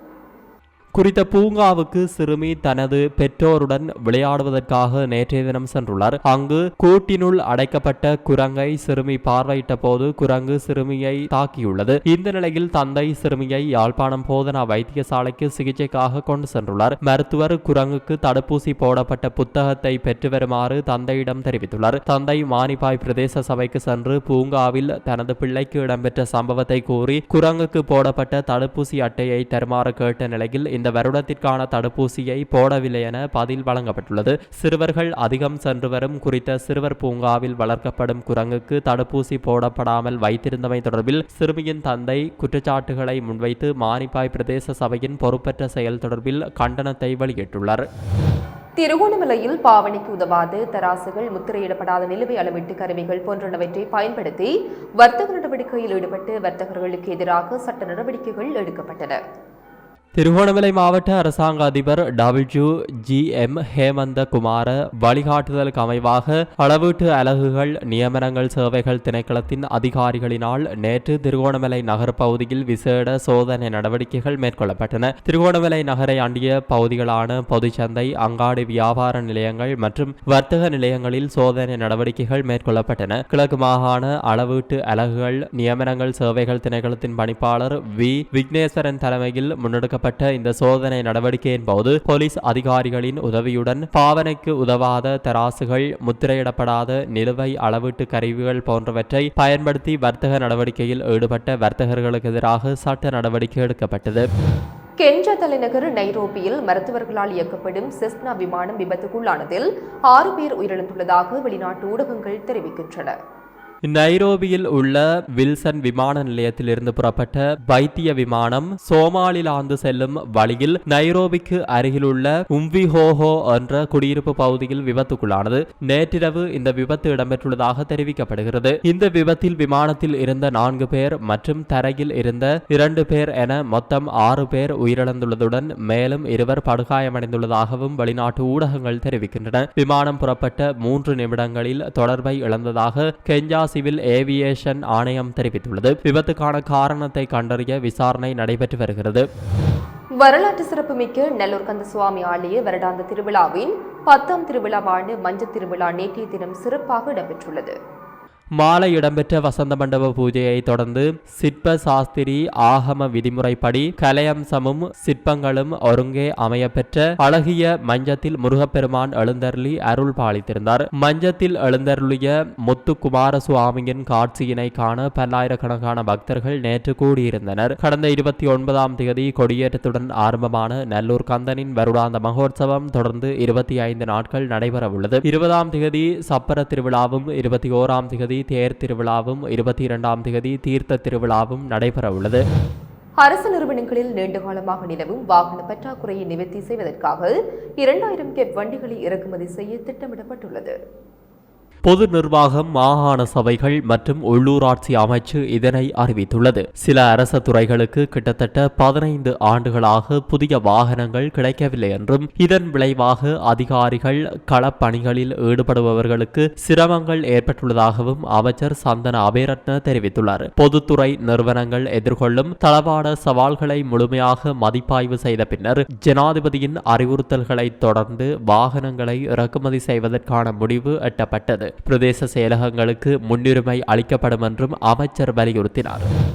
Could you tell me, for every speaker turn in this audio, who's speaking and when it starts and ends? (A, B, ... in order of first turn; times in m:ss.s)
0:01.0-0:47.8 A
0:48.8-0:59.2 B
1:00.2-1:44.3 A
1:45.0-1:53.2 B
1:53.9-2:29.2 A
2:30.2-2:37.8 B
2:38.6-3:12.4 A
3:13.2-3:20.8 B
3:21.9-3:56.1 A